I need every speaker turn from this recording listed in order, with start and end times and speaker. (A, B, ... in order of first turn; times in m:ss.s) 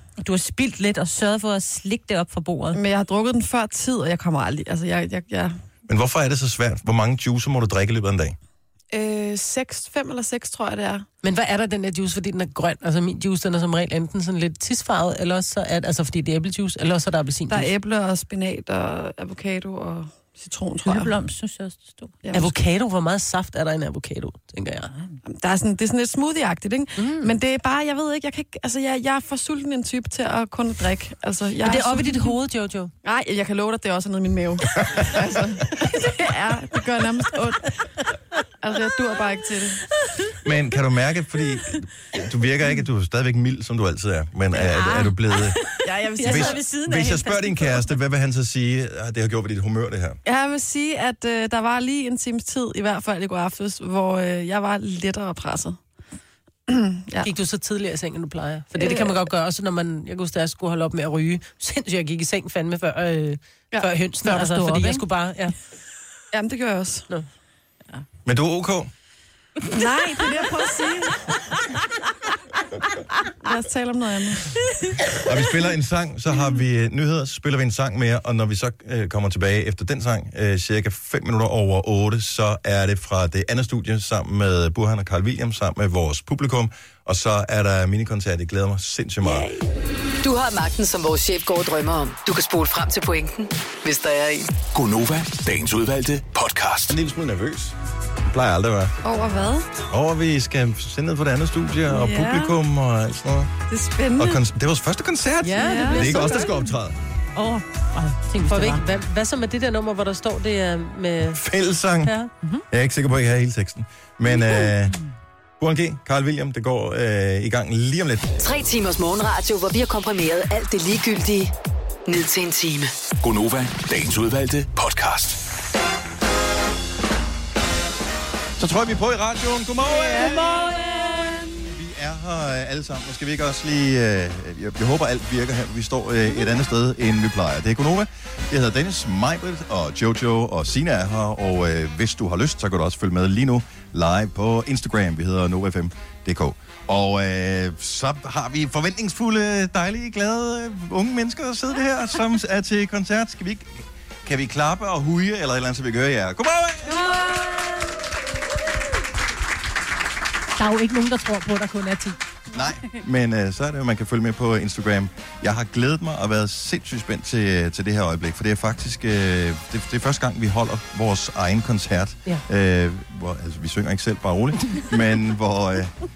0:00.2-0:02.8 A
0:02.7-0:05.5 B
0:05.9-0:08.4 C
0:08.9-0:11.0 B
0:11.2-0:17.7 D
0:17.5-0:21.1 B
0:20.8-0:22.1 A
0:22.2-0:22.5 B
0:22.3-0:24.9 D
0:25.2-0:32.4 B
0:27.0-0:27.3 D
0:31.6-0:32.9 D
0:33.0-0:37.7 B
0:38.6-0:39.8 B
0:40.4-0:45.6 C
0:44.5-0:47.8 A
0:45.8-0:46.6 B
0:46.2-0:50.2 C
0:50.2-0:55.8 B
0:56.7-0:57.3 B
0:57.2-1:05.5 D
0:58.8-0:59.2 B
1:04.2-1:05.0 A
1:06.3-1:07.0 B
1:08.2-1:08.9 C
1:09.7-1:11.2 B
1:13.4-1:14.6 B
1:15.1-1:29.5 C
1:29.2-1:29.6 B
1:30.2-1:34.6 E
1:34.7-1:37.0 F
1:36.9-1:39.0 C
1:39.0-1:39.7 B
1:39.9-1:43.5 C
1:41.9-1:42.6 B
1:43.7-1:44.4 B
1:44.2-1:47.0 C
1:45.4-1:46.2 B
1:45.4-1:46.6 D
1:47.4-1:48.8 A
1:48.4-1:51.4 D
1:51.3-1:52.1 C
1:52.0-1:52.6 D
1:52.7-1:55.0 C
1:55.6-1:58.3 C
1:58.4-2:01.5 E
2:02.0-2:02.9 E
2:03.2-2:05.4 F
2:08.6-2:10.7 C
2:10.2-2:11.4 A
2:11.6-2:37.1 C
2:40.6-2:42.2 D
2:42.5-2:55.9 C